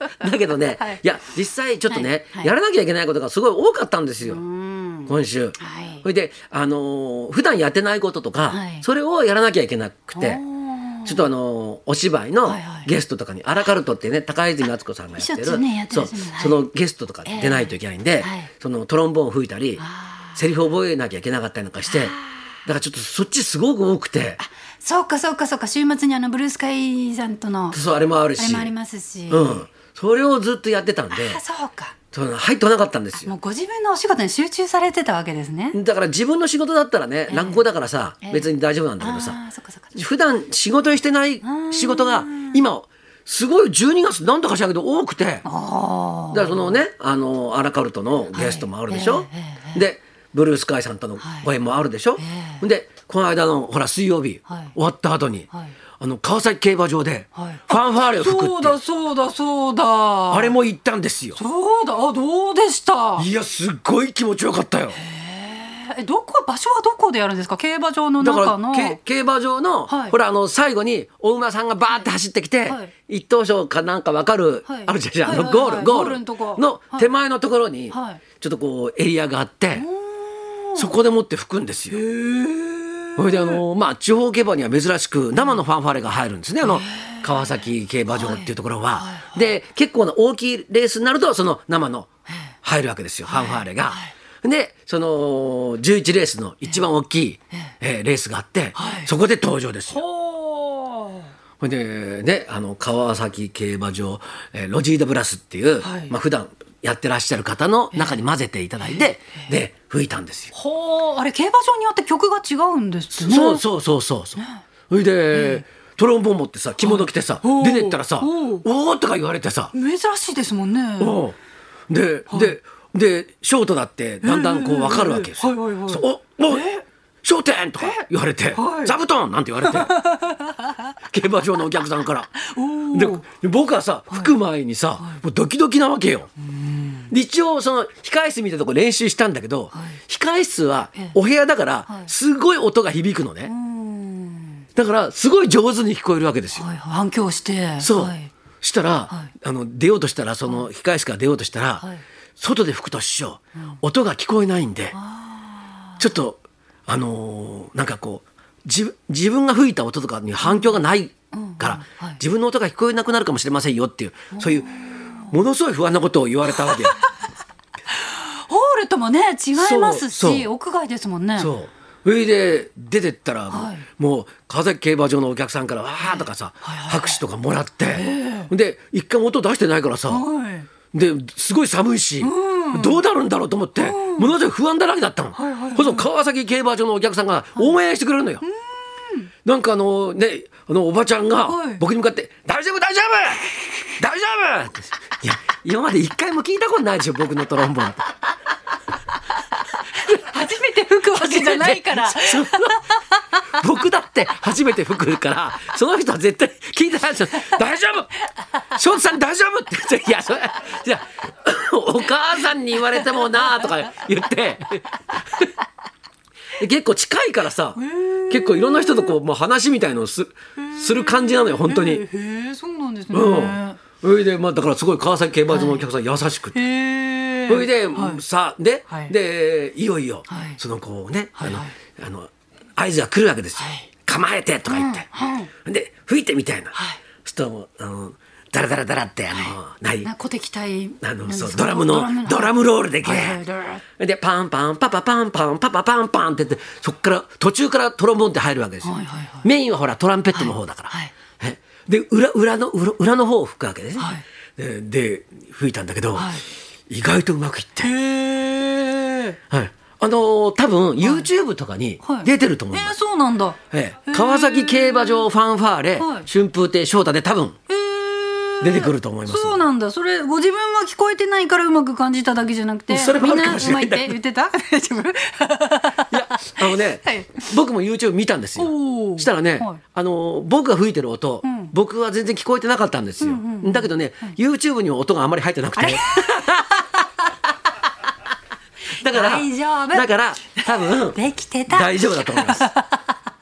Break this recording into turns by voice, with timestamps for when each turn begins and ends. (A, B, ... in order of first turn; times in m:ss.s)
0:00.2-0:04.4 A
0:01.9-0:02.5 B
0:04.2-0:06.0 B
0:05.1-0:10.4 A
0:08.5-0:08.8 B
0:10.1-0:11.2 B
0:11.0-0:19.8 A
0:12.4-0:12.9 B
0:15.2-0:16.6 B
0:17.2-0:18.5 B
0:19.8-0:20.5 B
0:20.4-0:24.4 A
0:21.8-0:22.4 B
0:24.4-0:27.8 B
0:27.7-0:28.7 A
0:28.4-0:29.6 B
0:29.3-0:31.4 A
0:31.1-0:31.9 B
0:32.1-0:33.3 A
0:33.2-0:35.8 B
0:35.7-0:39.4 A
0:37.3-0:37.6 B
0:38.2-0:40.0 B
0:40.0-0:45.5 A
0:41.4-0:42.6 B
0:45.4-0:46.7 B
0:46.3-0:55.5 A
0:48.3-0:49.8 B
0:51.2-0:51.5 B
0:52.2-0:52.6 B
0:54.5-0:54.7 B
0:56.0-0:58.8 A
0:57.4-1:00.5 B
1:00.3-1:01.4 A
1:01.4-1:03.3 B
1:03.2-1:05.0 A
1:04.9-1:09.0 B
1:08.2-1:19.8 A
1:09.9-1:10.2 B
1:12.7-1:12.9 B
1:14.7-1:17.1 B
1:17.9-1:18.2 B
1:19.7-1:20.9 B
1:20.8-1:22.0 A
1:21.9-1:23.6 B
1:23.2-1:32.1 A
1:26.6-1:27.5 B
1:28.1-1:29.4 B
1:32.6-1:40.0 A
1:33.3-1:34.1 B
1:38.8-1:39.1 B
1:39.9-1:41.3 B
1:41.6-1:50.5 A
1:45.8-1:46.1 B
1:50.5-1:53.6 B
1:53.1-1:59.7 A
1:54.4-1:54.6 B
1:55.3-1:55.6 B
1:56.8-1:58.6 B
1:59.7-2:01.2 B
2:01.0-2:01.4 A
2:01.9-2:06.7 A
2:02.3-2:02.5 B
2:04.2-2:06.8 B
2:07.2-2:10.0 A
2:07.8-2:09.0 B
2:09.6-2:10.9 B
2:11.0-2:16.3 A
2:12.4-2:13.2 B
2:16.5-2:17.1 B
2:17.1-2:23.5 A
2:19.7-2:20.0 B
2:23.4-2:24.6 B
2:24.8-2:26.6 A
2:26.5-2:28.3 B
2:27.8-2:31.8 A
2:32.4-2:35.0 A
2:34.9-2:36.0 B
2:36.0-2:47.0 A
2:40.4-2:40.7 B
2:41.3-2:42.2 B
2:44.3-2:45.4 B
2:46.6-2:47.0 B
2:47.9-2:51.5 B
2:49.6-2:50.5 A
2:51.4-3:00.2 A
2:53.5-2:53.8 B
2:56.0-2:57.2 B
2:57.9-2:58.5 B
3:00.1-3:00.7 B
3:00.9-3:08.4 A
3:02.2-3:03.0 B
3:03.8-3:04.3 B
3:05.3-3:06.1 B
3:08.4-3:09.3 B
3:09.4-3:18.1 A
3:11.4-3:11.8 B
3:20.1-3:23.0 B
3:21.1-3:22.9 A
3:23.5-3:35.5 A
3:36.6-3:42.0 A
3:37.7-3:39.2 B
3:40.6-3:43.8 B
3:43.1-3:46.6 A
3:45.5-3:45.9 B
3:46.5-3:48.2 B
3:47.4-3:55.1 A
3:48.9-3:49.1 B
3:50.3-3:50.6 B
3:51.4-3:51.7 B
3:53.6-3:53.9 B
3:54.7-3:55.5 B
3:55.6-4:00.1 A
3:56.7-3:57.0 B
3:59.3-4:03.8 B
4:01.0-4:03.4 A
4:04.0-4:17.9 A
4:08.8-4:09.5 B
4:10.3-4:11.1 B
4:14.0-4:14.2 B
4:16.1-4:16.4 B
4:17.8-4:19.4 B
4:19.5-4:23.0 A
4:21.0-4:21.3 B
4:22.0-4:25.2 B
4:23.7-4:27.6 A
4:26.0-4:26.3 B
4:27.7-4:37.5 B
4:28.6-4:29.6 A
4:32.9-4:34.2 A
4:36.1-4:46.7 A
4:38.6-4:39.8 B
4:41.4-4:41.7 B
4:43.2-4:44.4 B
4:45.8-4:47.0 B
4:49.0-4:52.7 A
4:49.0-4:53.1 B